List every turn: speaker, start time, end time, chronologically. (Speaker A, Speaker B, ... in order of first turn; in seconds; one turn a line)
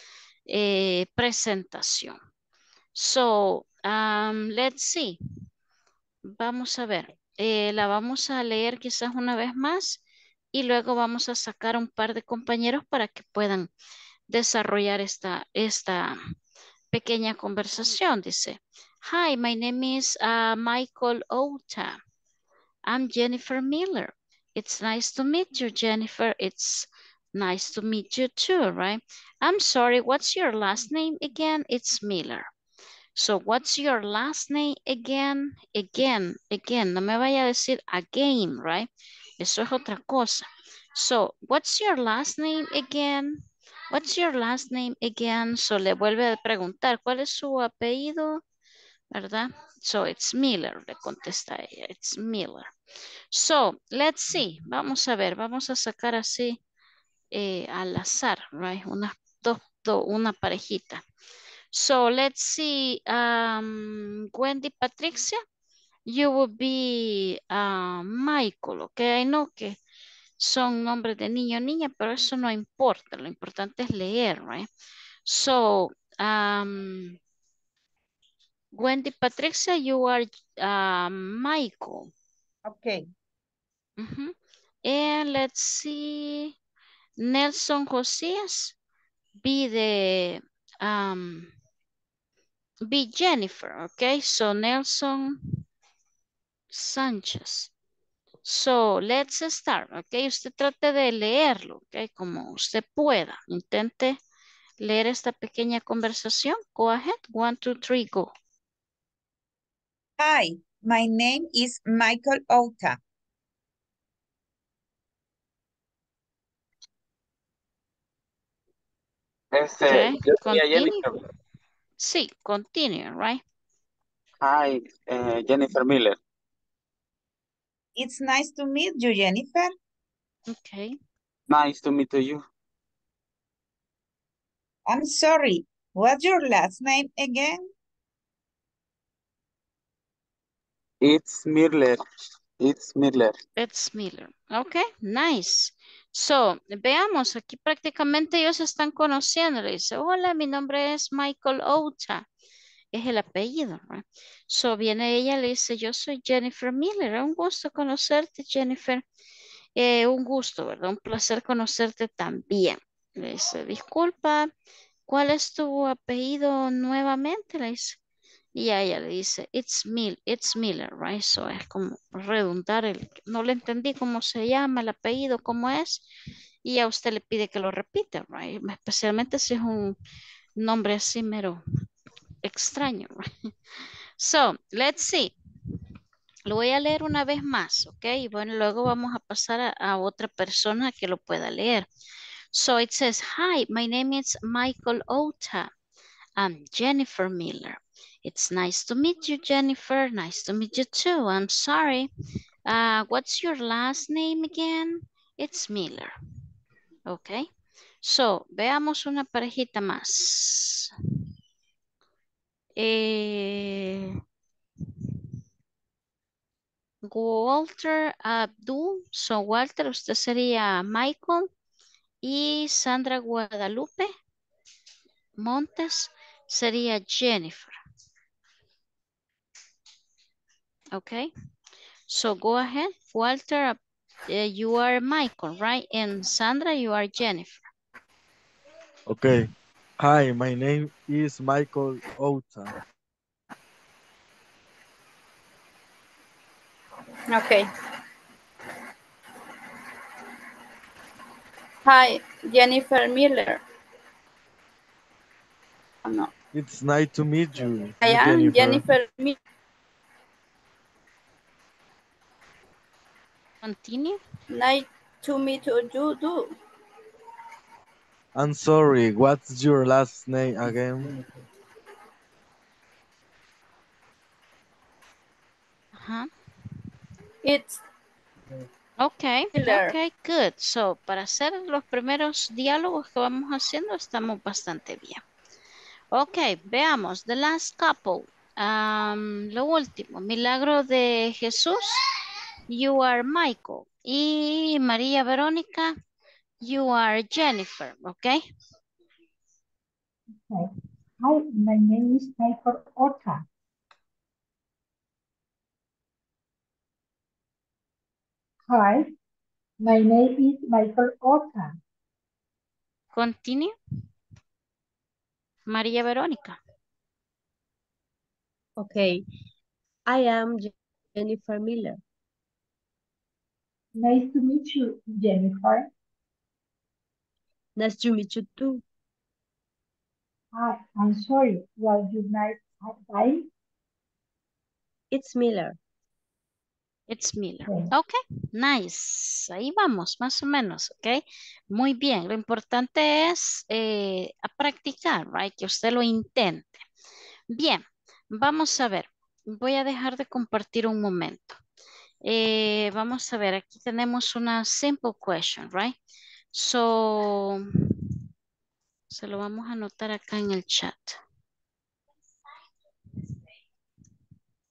Speaker A: 0.5-2.1
Speaker A: 2.9-5.2
Speaker A: 6.2-10.0
Speaker A: 10.5-13.7
Speaker A: 14.3-16.2
Speaker A: 16.9-22.0
Speaker A: 22.9-32.5
Speaker A: 33.1-38.9
Speaker A: 39.4-48.4
Speaker A: 49.1-52.7
Speaker A: 53.3-56.6
Speaker A: 57.3-61.0
Speaker A: 61.7-65.4
Speaker A: 66.1-69.8
Speaker A: 70.4-74.7
Speaker A: 75.2-77.2
Speaker A: 78.7-82.1
Speaker B: 82.6-83.0
Speaker A: 84.0-86.5
Speaker A: 87.2-88.7
Speaker A: 89.4-91.5
Speaker A: 92.8-95.4
Speaker A: 96.7-97.7
Speaker A: 98.4-104.2
Speaker A: 104.8-108.3
Speaker B: 110.2-113.0
Speaker C: 119.5-121.1
Speaker A: 119.8-121.0
Speaker A: 122.0-123.4
Speaker C: 124.4-126.2
Speaker B: 128.0-129.7
Speaker A: 130.5-131.0
Speaker C: 131.5-132.4
Speaker B: 134.9-137.6
Speaker C: 141.0-142.0
Speaker C: 142.6-143.3
Speaker A: 143.6-152.2
Speaker A: 152.9-159.0
Speaker A: 159.8-164.5
Speaker A: 165.1-168.0
Speaker A: 168.5-176.1
Speaker A: 176.6-179.9
Speaker A: 180.6-181.6
Speaker A: 182.4-183.2
Speaker A: 184.2-185.3
Speaker A: 186.5-191.9
Speaker A: 192.5-195.7
Speaker A: 196.4-202.1
Speaker A: 202.7-206.1
Speaker A: 207.1-207.5
Speaker A: 208.0-210.9
Speaker A: 212.8-214.1
Speaker A: 217.0-221.5
Speaker A: 222.2-224.1
Speaker A: 225.4-227.7
Speaker A: 230.9-231.3
Speaker A: 232.1-237.7
Speaker D: 239.1-242.7
Speaker E: 247.3-247.7
Speaker E: 251.8-253.6
Speaker E: 256.0-256.3
Speaker D: 256.5-258.8
Speaker E: 258.0-259.4
Speaker A: 263.6-264.2
Speaker E: 264.5-266.5
Speaker D: 268.3-271.0
Speaker A: 275.9-276.3
Speaker E: 277.4-277.8
Speaker A: 279.0-285.2
Speaker E: 279.5-279.9
Speaker A: 286.1-292.0
Speaker A: 292.7-295.9
Speaker A: 296.6-298.4
Speaker F: 300.4-303.4
Speaker F: 308.7-309.1
Speaker F: 309.8-311.8
Speaker A: 313.1-313.7
Speaker A: 315.7-316.6
Speaker G: 318.8-319.2
Speaker G: 320.1-322.0
Speaker F: 323.9-325.9
Speaker G: 327.8-328.8
Speaker F: 330.5-333.5
Speaker G: 335.1-335.8
Speaker A: 337.1-346.8
Speaker A: 347.5-351.6
Speaker A: 352.2-356.0
Speaker A: 356.5-357.6
Speaker A: 359.1-361.2